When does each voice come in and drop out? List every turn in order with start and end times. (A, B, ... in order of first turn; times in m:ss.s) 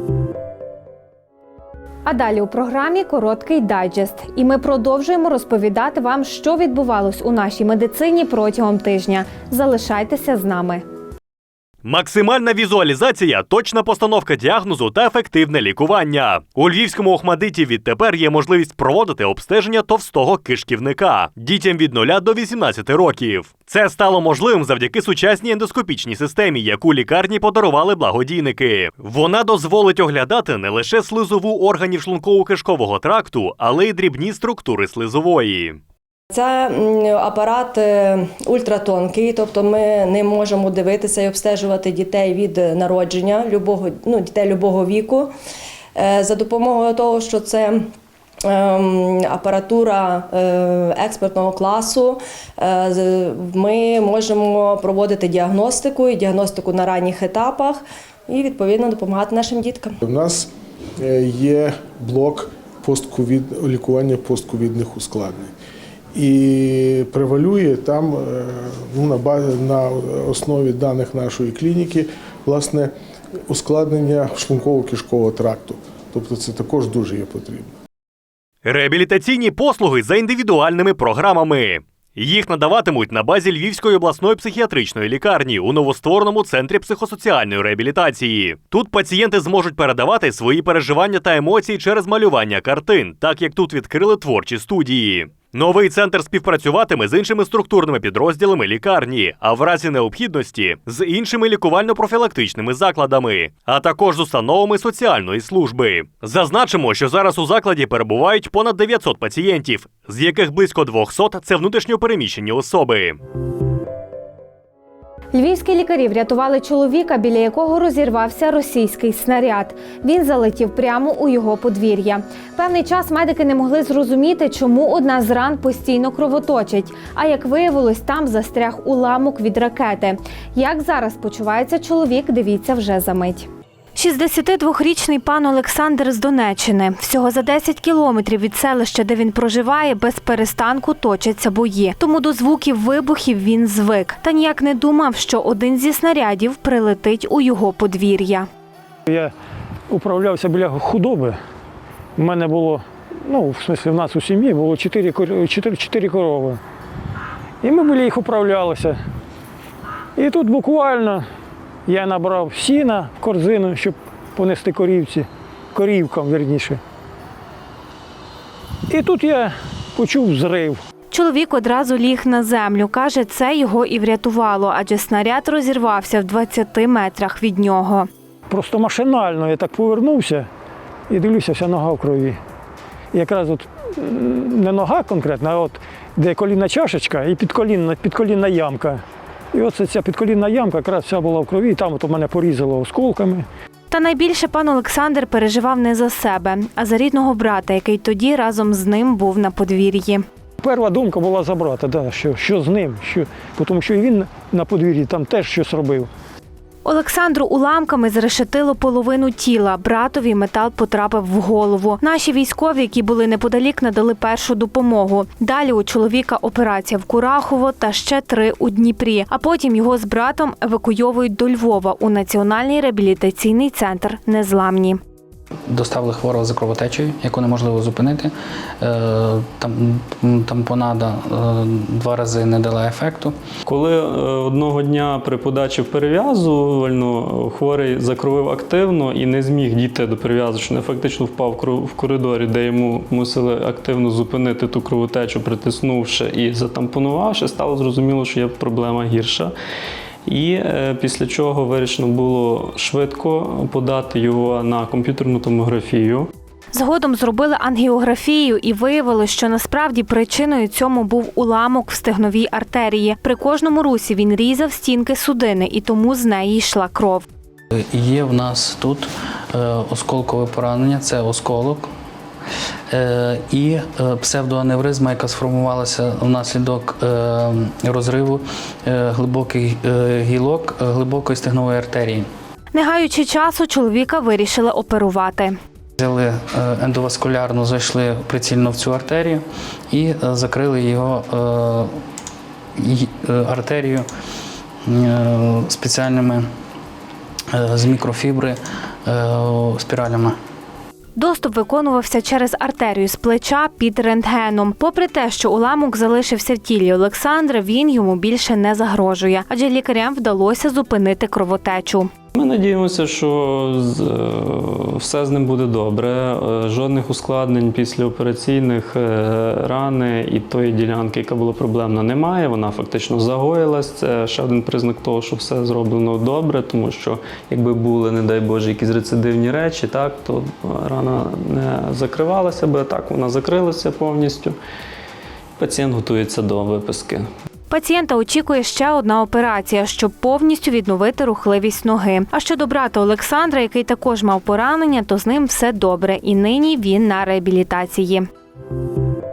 0:02.1-0:10.8 A
0:11.8-0:35.8 B
0:36.3-0:45.3 C
0:46.0-0:47.8 C
0:48.5-0:57.8 C
0:58.3-1:00.0 C
1:00.0-1:00.5 D
1:01.0-1:05.5 D
1:06.2-1:12.9 D
1:13.5-1:17.7 D
1:18.6-1:53.2 B
1:55.3-2:28.5 A
2:29.9-2:31.4 E
2:32.2-2:36.6 E
2:37.6-2:39.0 E
2:40.2-2:41.2 E
2:41.9-2:46.8 E
2:48.9-2:50.8 E
2:51.1-2:58.1 A
2:58.5-3:00.5 E
3:01.1-3:02.4 E
3:03.1-3:09.0 E
3:09.5-3:13.4 E
3:13.9-3:20.2 A
3:20.6-3:26.1 E
3:26.8-3:45.0 A
3:45.7-3:53.4 F
3:53.7-4:09.5 G
4:10.2-4:16.3 G
4:16.7-4:27.3 A
4:27.8-4:31.9 F
4:32.9-4:42.3 F
4:42.7-4:45.6 A
4:46.0-4:51.9 F
4:52.8-4:54.1 F
4:54.9-4:56.5 F
4:57.5-5:00.4 F
5:01.2-5:12.1 A
5:12.4-5:34.6 G
5:35.6-5:37.3 G
5:37.7-5:48.3 A